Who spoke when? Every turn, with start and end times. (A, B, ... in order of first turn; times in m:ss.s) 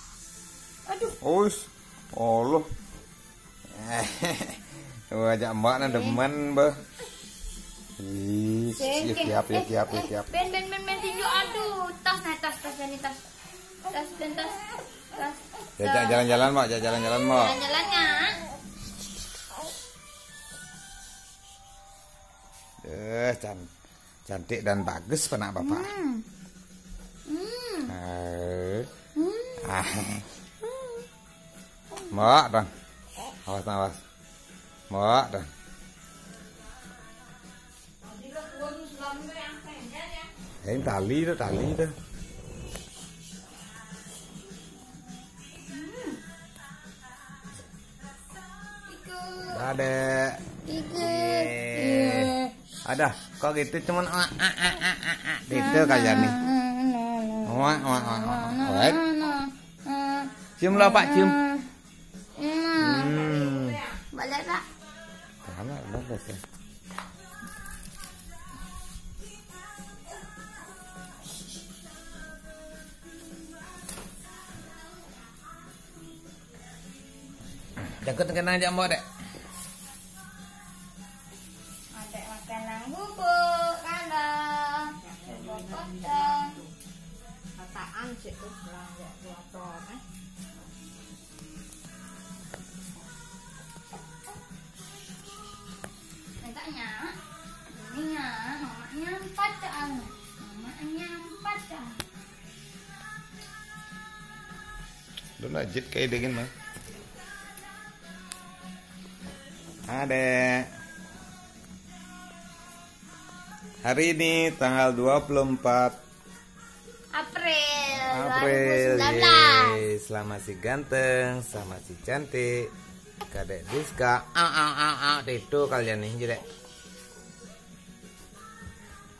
0:00.9-0:01.2 A
0:01.2-0:02.7 B
0:03.7-0:06.7 B
0:05.8-0:06.2 A
0:08.0-0:10.3 B
0:08.8-0:13.2 A
0:13.9-0:16.3 A
0:15.8-0:17.6 B
0:17.2-0:18.4 A
0:22.8-0:23.7 B
0:24.3-0:25.9 B
0:25.6-0:26.2 A
0:27.3-0:27.9 A
0:27.9-0:28.9 B
0:29.1-0:29.7 A
0:29.6-0:30.2 B
0:32.1-0:32.7 B
0:33.4-0:34.0 B
0:34.9-0:35.5 B
0:38.0-0:40.3 C
0:40.6-0:41.9 B
0:45.7-0:46.2 A
0:48.9-0:49.7 A
0:49.5-0:50.4 B
0:50.6-0:52.5 A
0:50.9-0:56.4 B
0:55.5-1:01.6 A
0:57.4-0:59.0 B
1:00.6-1:01.4 B
1:02.4-1:04.6 A
1:02.8-1:03.8 B
1:05.4-1:06.4 B
1:17.8-1:19.0 B
1:21.9-1:26.6 A
1:25.0-1:26.7 C
1:27.6-1:30.0 C
1:36.4-1:37.1 A
1:37.7-1:42.0 A
1:45.4-1:46.5 B
1:49.9-1:50.7 B
1:53.8-1:56.0 B
1:57.1-1:59.8 A
1:58.1-2:02.7 B
2:03.3-2:06.4 B